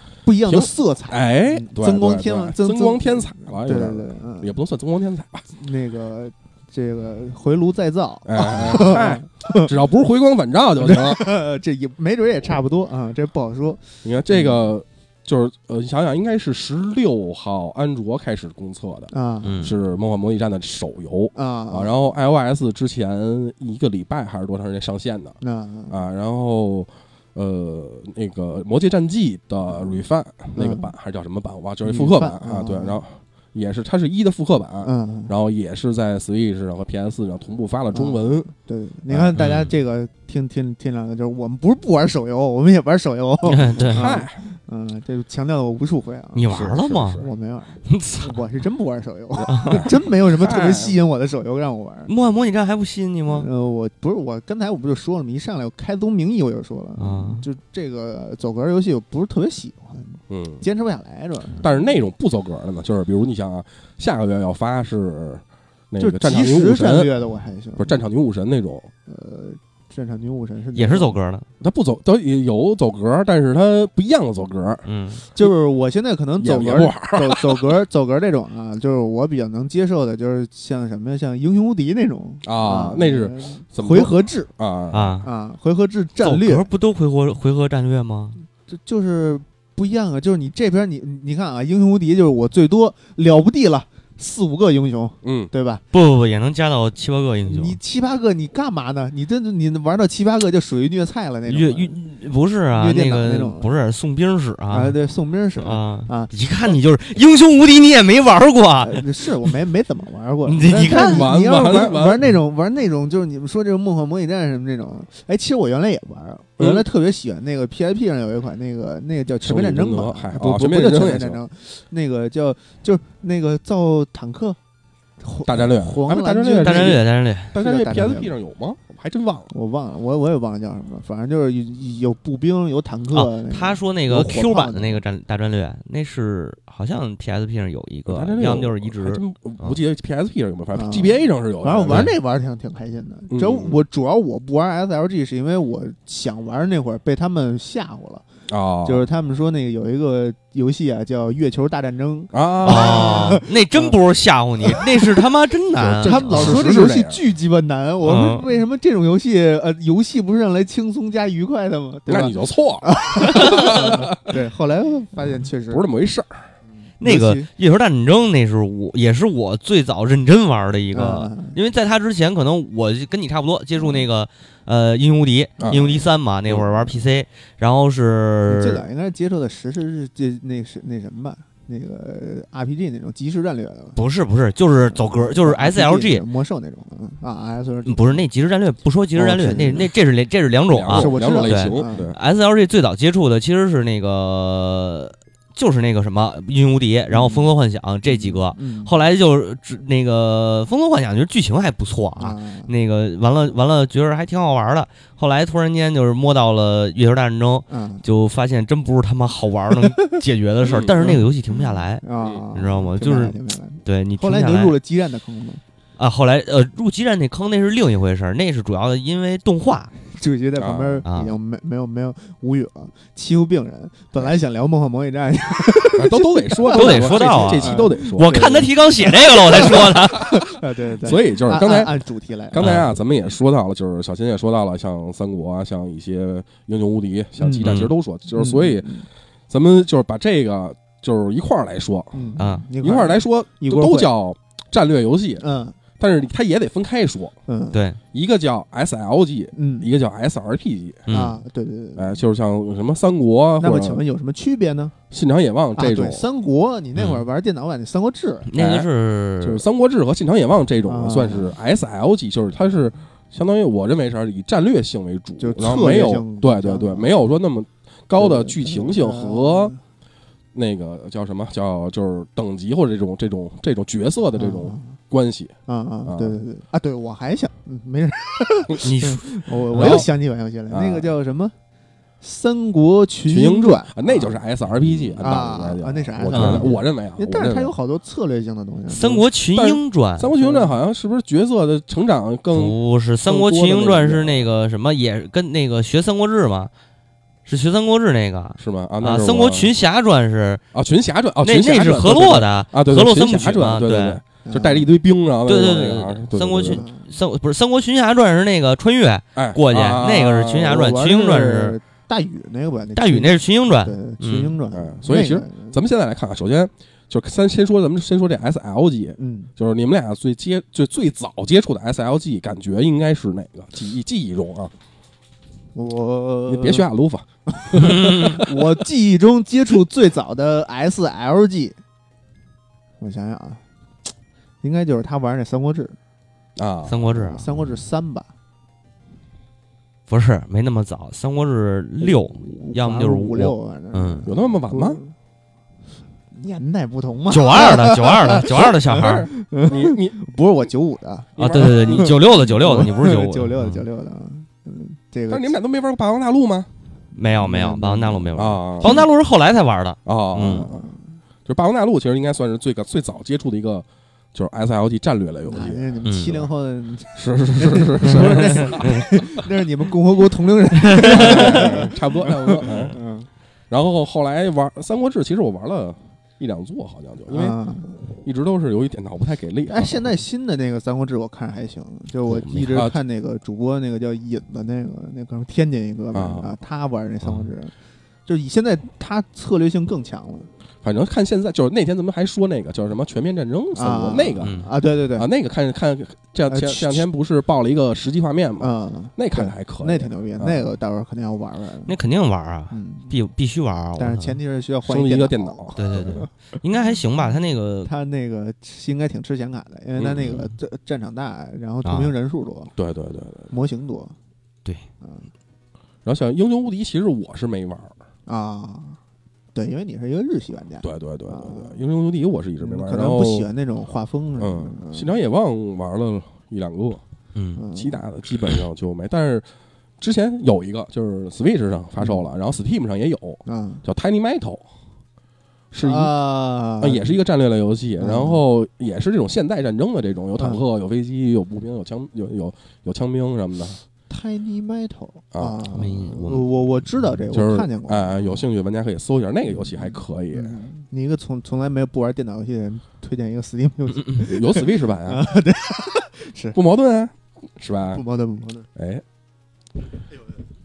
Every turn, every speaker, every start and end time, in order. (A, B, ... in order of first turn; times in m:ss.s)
0:00.2-0:04.6 A
0:00.5-0:05.4 B
0:05.5-0:09.7 A
0:08.2-0:11.4 B
0:10.8-0:14.6 A
0:14.0-0:25.4 B
0:19.1-0:19.7 A
0:19.4-0:19.8 C
0:21.3-0:21.9 A
0:25.4-0:26.0 A
0:25.9-0:38.4 B
0:30.6-0:30.9 A
0:31.8-0:33.0 A
0:34.8-0:35.3 A
0:37.9-0:52.1 A
0:39.4-0:39.7 C
0:43.4-0:44.2 C
0:43.7-0:44.4 B
0:46.4-0:47.2 C
0:46.5-0:47.2 B
0:47.9-0:48.4 C
0:49.4-0:51.0 B
0:49.5-0:49.9 C
0:52.1-0:53.5 C
0:53.3-1:01.7 A
0:57.0-0:57.4 C
1:00.3-1:00.6 B
1:01.6-1:07.1 B
1:06.0-1:08.0 A
1:07.8-1:08.9 B
1:09.1-1:11.1 A
1:10.8-1:11.4 C
1:11.6-1:14.8 B
1:14.8-1:15.2 C
1:15.4-1:24.5 A
1:16.4-1:17.5 B
1:22.4-1:25.1 B
1:24.9-1:25.3 C
1:25.2-1:26.7 A
1:26.2-1:28.4 C
1:28.7-1:35.8 A
1:35.2-1:35.5 B
1:35.9-1:37.8 C
1:37.5-1:42.0 A
1:41.5-1:45.0 C
1:42.7-1:43.7 A
1:44.7-1:46.3 A
1:45.6-1:49.5 C
1:48.8-2:04.6 A
1:50.4-1:51.3 C
1:50.9-1:52.2 B
1:56.6-1:56.8 B
1:59.4-2:01.4 B
2:05.2-2:08.3 A
2:05.4-2:09.5 B
2:06.6-2:07.6 C
2:09.5-2:15.0 A
2:13.1-2:19.8 C
2:18.1-2:22.1 B
2:20.7-2:28.2 A
2:21.9-2:22.1 C
2:23.3-2:23.8 B
2:28.5-2:29.1 B
2:28.8-2:34.0 A
2:32.3-2:33.4 B
2:32.6-2:36.6 C
2:34.6-2:35.1 A
2:35.8-2:37.2 B
2:36.0-2:45.8 A
2:38.0-2:38.4 C
2:42.1-2:44.3 B
2:45.7-2:46.4 B
2:47.0-2:47.5 A
2:47.0-2:58.9 C
2:50.9-2:51.6 A
2:53.8-2:54.0 A
2:55.6-2:56.0 B
2:56.5-2:57.0 A
2:58.5-3:04.0 A
3:04.0-3:06.2 C
3:04.9-3:08.2 A
3:07.9-3:34.8 C
3:09.1-3:09.9 A
3:10.7-3:12.2 B
3:10.9-3:12.1 A
3:17.1-3:17.5 A
3:18.0-3:18.9 A
3:22.2-3:22.7 A
3:27.7-3:28.1 A
3:29.9-3:30.2 A
3:30.6-3:31.1 B
3:31.0-3:35.6 A
3:36.0-3:39.9 C
3:40.1-3:52.8 A
3:40.6-3:41.0 B
3:41.1-3:41.4 C
3:45.9-3:48.7 B
3:46.7-3:50.4 C
3:49.6-3:50.4 B
3:51.0-3:52.0 B
3:52.5-3:58.9 B
3:52.6-3:52.9 C
3:57.4-3:57.8 A
3:57.6-3:57.9 C
3:58.3-3:59.1 A
3:59.5-4:05.4 B
4:02.1-4:04.1 A
4:02.4-4:02.7 C
4:05.4-4:05.8 A
4:06.0-4:07.4 B
4:07.5-4:07.8 A
4:07.7-4:08.0 C
4:08.1-4:11.1 B
4:09.5-4:09.9 A
4:11.1-4:11.4 C
4:11.1-4:12.2 A
4:12.0-4:14.0 B
4:13.6-4:14.9 A
4:15.1-4:16.2 B
4:15.8-4:18.5 A
4:17.0-4:17.2 C
4:18.5-4:19.6 C
4:18.6-4:18.9 B
4:19.4-4:29.7 B
4:20.9-4:21.5 A
4:25.4-4:27.1 A
4:28.2-4:29.8 A
4:30.5-4:35.6 B
4:34.4-4:34.9 A
4:35.7-4:41.5 A
4:36.1-4:36.4 B
4:38.8-4:40.0 C
4:39.7-4:40.1 B
4:40.7-4:41.1 B
4:42.2-4:44.4 A
4:43.3-4:47.7 B
4:45.2-4:49.3 A
4:46.3-4:46.7 C
4:48.9-4:50.4 C
4:49.6-4:54.5 B
4:50.4-4:50.7 A
4:52.5-4:56.7 C
4:57.4-5:00.6 C
4:58.6-4:59.7 B
5:00.7-5:06.8 B
5:01.4-5:04.2 C
5:04.4-5:04.9 A
5:05.4-5:11.8 C
5:06.7-5:07.1 A
5:09.4-5:10.8 B
5:10.6-5:15.8 A
5:13.0-5:14.6 C
5:14.7-5:24.7 B
5:19.2-5:19.5 A
5:25.8-5:26.9 A
5:26.5-5:28.4 B
5:27.5-5:31.8 A
5:27.7-5:28.5 C
5:33.0-5:33.6 A
5:34.6-5:36.0 A
5:36.6-5:37.0 B
5:36.9-5:37.4 C
5:37.1-5:38.3 A
5:40.1-5:44.3 C
5:42.0-5:45.1 A
5:44.3-5:45.0 B
5:46.3-5:55.6 A
5:47.3-5:49.3 C
5:48.2-5:50.2 B
5:51.4-5:52.2 B
5:51.4-5:53.8 C
5:55.3-5:56.7 B
5:57.2-5:59.1 A
5:57.2-6:00.7 C
5:58.3-5:59.0 B
6:00.0-6:00.7 B
6:00.4-6:01.2 A
6:01.4-6:05.9 B
6:05.4-6:13.3 A
6:06.0-6:06.4 C
6:07.2-6:09.1 B
6:08.1-6:09.0 C
6:10.8-6:11.8 C
6:11.0-6:13.0 B
6:13.7-6:17.6 B
6:17.3-6:18.1 A
6:18.1-6:20.1 B
6:19.7-6:27.7 A
6:22.3-6:22.8 C
6:26.1-6:26.5 B
6:27.2-6:27.5 C
6:28.3-6:30.5 A
6:30.8-6:34.6 B
6:33.8-6:35.3 A
6:34.4-6:34.7 C
6:35.2-6:40.7 B
6:36.5-6:37.0 A
6:38.6-6:41.9 A
6:41.9-6:44.4 C
6:42.7-6:43.1 A
6:44.0-6:46.3 A
6:44.8-6:46.2 B
6:45.8-6:47.9 C
6:47.8-6:52.7 A
6:50.0-6:50.3 B
6:50.2-6:50.5 C
6:51.8-6:52.1 C
6:52.8-6:53.5 B
6:53.5-6:54.2 A
6:55.0-6:55.3 A
6:56.0-6:57.9 B
6:58.3-6:59.0 A
6:59.6-7:01.8 A
7:00.8-7:03.5 B
7:02.6-7:05.2 A
7:04.4-7:07.0 B
7:07.3-7:07.6 C
7:07.6-7:08.0 A
7:07.7-7:09.5 B
7:10.0-7:14.6 B
7:13.4-7:13.8 A
7:15.7-7:16.2 B
7:15.8-7:17.2 A
7:16.8-7:23.8 B
7:18.0-7:18.4 A
7:24.1-7:28.4 A
7:25.3-7:25.6 B
7:25.7-7:26.5 C
7:27.3-7:30.6 B
7:29.5-7:36.6 A
7:34.2-7:35.3 B
7:36.5-7:38.0 B
7:37.9-7:38.7 A
7:38.8-7:39.0 B